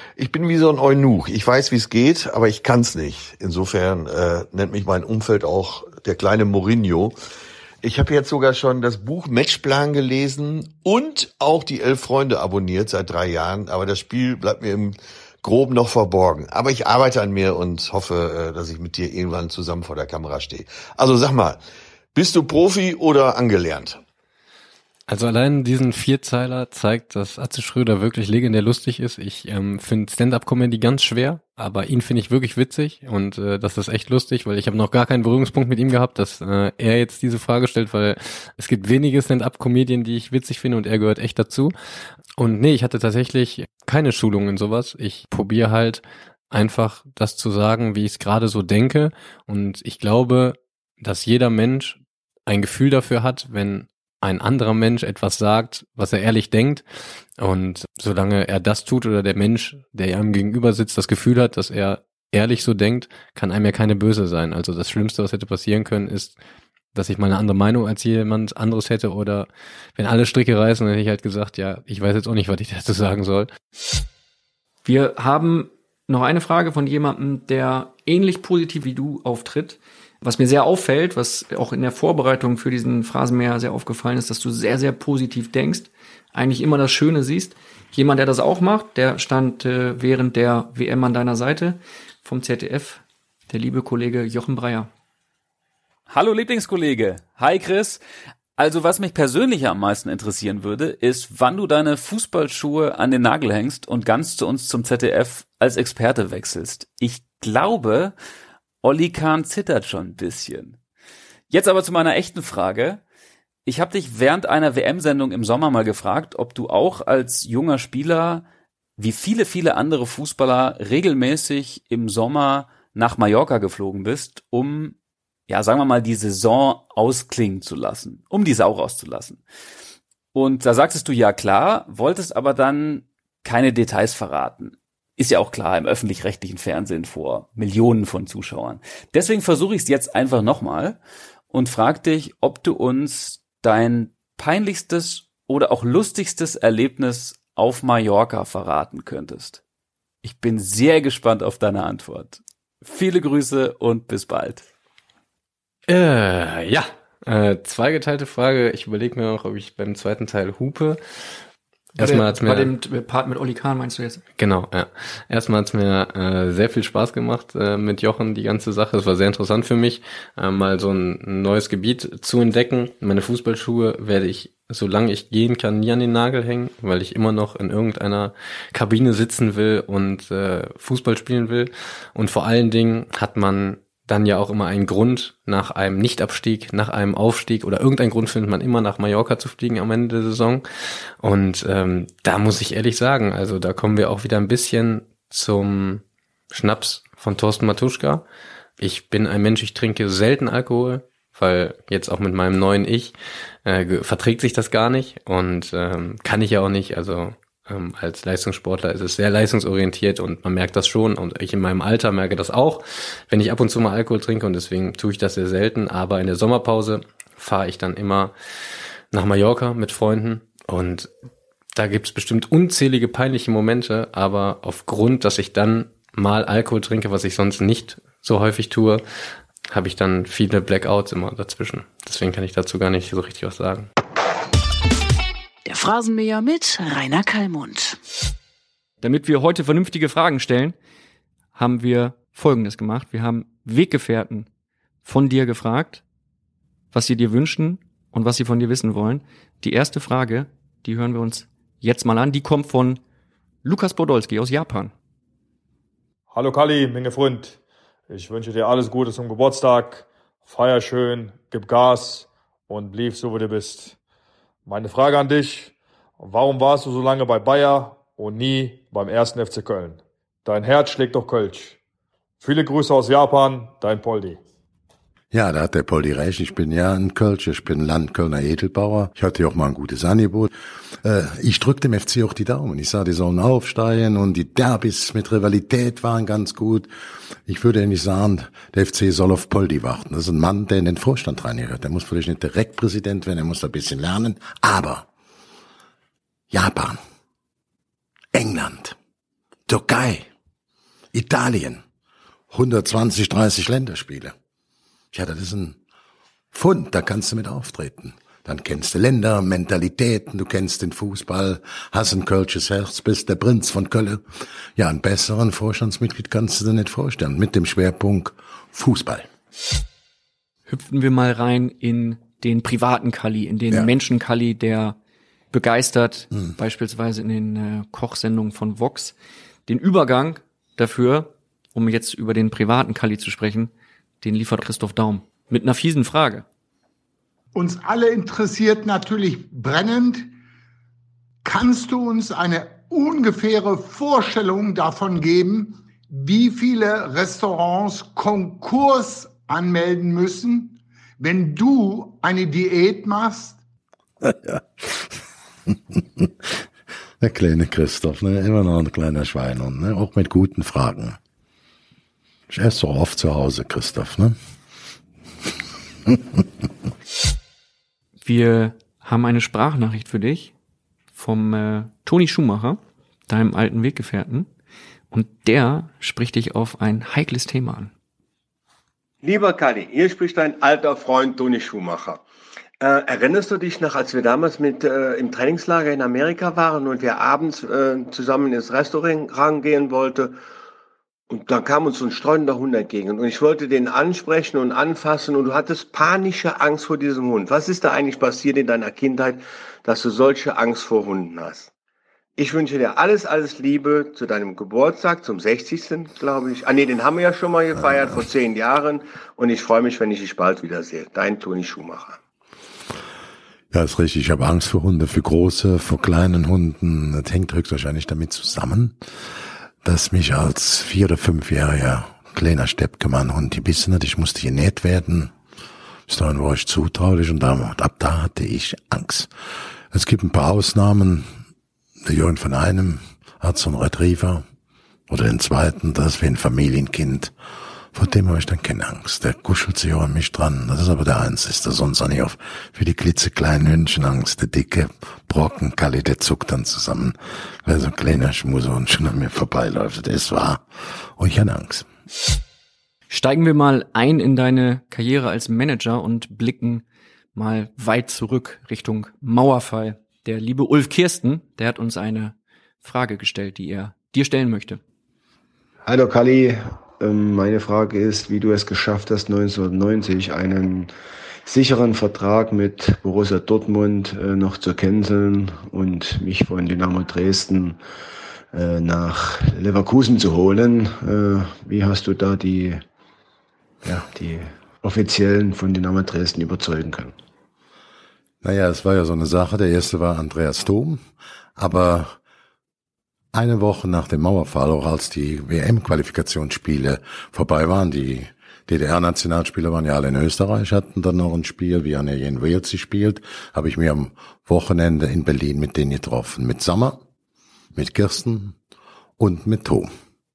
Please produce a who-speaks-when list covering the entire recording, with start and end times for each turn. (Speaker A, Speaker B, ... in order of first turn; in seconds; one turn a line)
Speaker A: 0.2-7.1
Speaker A: 7.8-21.6
Speaker A: 22.1-24.0
Speaker B: 25.1-41.7
Speaker B: 42.4-56.8
Speaker B: 57.4-66.4
Speaker B: 66.9-73.5
Speaker C: 74.8-94.9
Speaker D: 96.1-98.0
Speaker D: 98.6-108.1
Speaker D: 108.8-110.8
Speaker D: 111.5-113.0
Speaker D: 113.7-118.4
Speaker D: 119.0-124.9
Speaker D: 125.5-129.4
Speaker D: 130.3-141.0
Speaker D: 141.5-149.6
Speaker D: 150.2-154.7
Speaker B: 155.9-161.0
Speaker C: 161.9-164.2
Speaker B: 162.0-162.7
Speaker B: 164.4-190.6
Speaker B: 191.2-198.2
Speaker B: 198.8-218.3
Speaker B: 219.1-221.1
Speaker B: 221.8-229.0
Speaker B: 229.7-233.9
Speaker E: 235.7-238.0
Speaker C: 239.0-240.8
Speaker C: 241.5-244.5
Speaker C: 245.0-246.0
Speaker C: 246.9-253.0
Speaker C: 253.6-254.9
Speaker F: 256.3-257.6
Speaker F: 258.1-263.9
Speaker F: 264.7-271.8
Speaker F: 272.4-274.4
Speaker G: 275.3-280.5
Speaker G: 281.0-286.9
Speaker G: 287.4-295.1
Speaker G: 296.5-297.0
Speaker G: 298.3-298.9
Speaker G: 299.7-300.3
Speaker G: 301.1-301.8
Speaker G: 302.5-304.3
Speaker G: 305.1-305.8
Speaker G: 306.5-314.2
Speaker G: 314.8-319.3
Speaker C: 320.7-324.9
Speaker C: 325.5-329.1
Speaker C: 329.7-333.7
Speaker C: 334.2-336.4
Speaker H: 337.5-340.2
Speaker H: 341.4-353.5
Speaker G: 354.2-354.9
Speaker G: 357.2-361.1
Speaker G: 362.5-364.3
Speaker C: 368.2-370.5
Speaker C: 371.1-374.5
Speaker C: 375.1-377.9
Speaker I: 379.2-382.2
Speaker I: 382.8-390.3
Speaker I: 391.3-401.7
Speaker I: 402.4-412.2
Speaker G: 413.7-419.0
Speaker G: 419.8-425.3
Speaker G: 426.1-429.3
Speaker G: 429.9-431.3
Speaker G: 432.0-434.4
Speaker G: 435.1-437.3
Speaker G: 437.9-451.9
Speaker C: 453.1-456.8
Speaker C: 457.3-464.8
Speaker J: 465.9-470.9
Speaker J: 471.4-477.8
Speaker J: 478.5-482.8
Speaker J: 483.8-487.1
Speaker G: 488.4-491.0
Speaker G: 491.6-492.1
Speaker G: 493.3-507.0
Speaker G: 507.7-508.5
Speaker G: 509.2-509.9